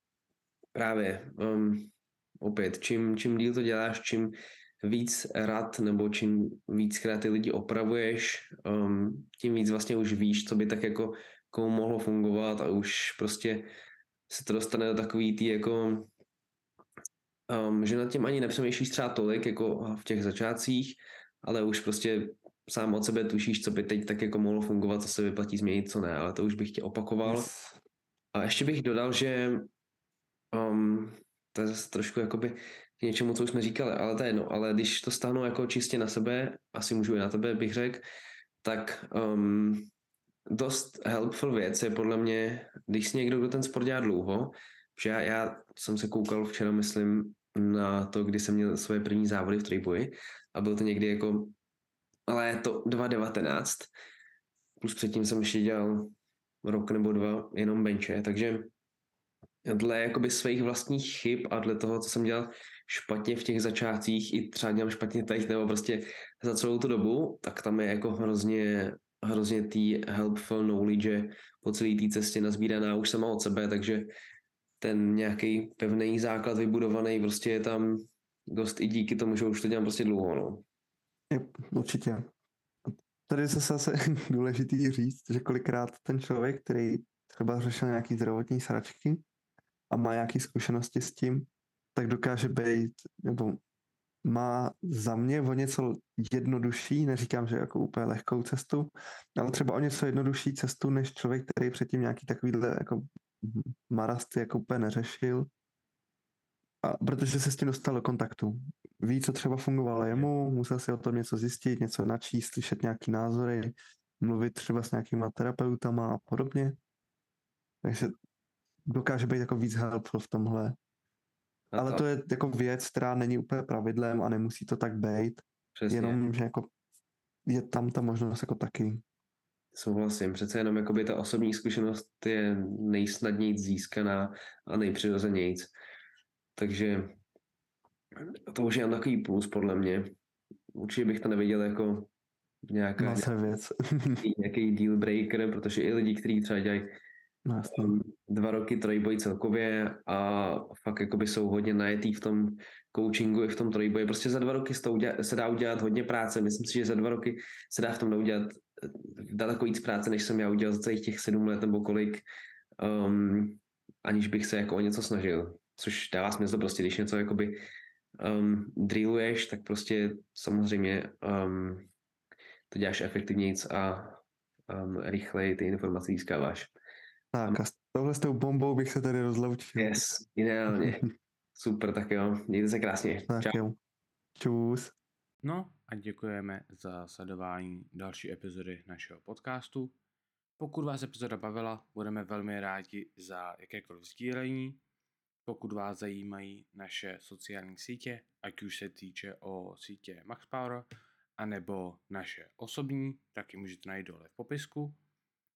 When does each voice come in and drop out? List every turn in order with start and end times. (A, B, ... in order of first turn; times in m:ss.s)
0:00.8-0:13.7 A
0:14.3-0:16.1 A
0:17.5-0:27.5 A
0:27.2-0:27.8 B
0:28.3-0:29.7 A
0:30.5-0:38.0 A
0:38.6-0:39.9 A
0:40.5-0:51.6 A
0:52.3-0:53.9 A
0:54.8-0:58.7 A
0:59.7-1:14.1 A
1:14.8-1:20.6 A
1:21.3-1:22.3 B
1:23.3-1:29.2 B
1:29.9-1:33.6 B
1:34.2-1:45.5 B
1:46.8-1:56.8 B
1:57.8-1:58.2 B
1:58.9-2:00.8 B
2:01.7-2:02.0 A
2:01.8-2:06.7 B
2:05.8-2:06.2 A
2:07.5-2:09.0 B
2:09.7-2:15.7 A
2:16.6-2:17.2 A
2:18.2-2:20.1 A
2:20.8-2:22.1 A
2:22.7-2:23.3 A
2:23.0-2:24.2 B
2:24.2-2:26.9 A
2:27.5-2:28.0 B
2:27.7-2:42.2 A
2:42.8-2:47.6 A
2:48.2-2:51.9 A
2:52.7-2:56.7 A
2:57.3-3:00.0 B
2:59.8-3:03.6 A
3:03.3-3:03.8 B
3:04.4-3:04.9 B
3:05.4-3:09.9 C
3:10.6-3:14.8 C
3:15.5-3:20.8 C
3:21.4-3:25.0 C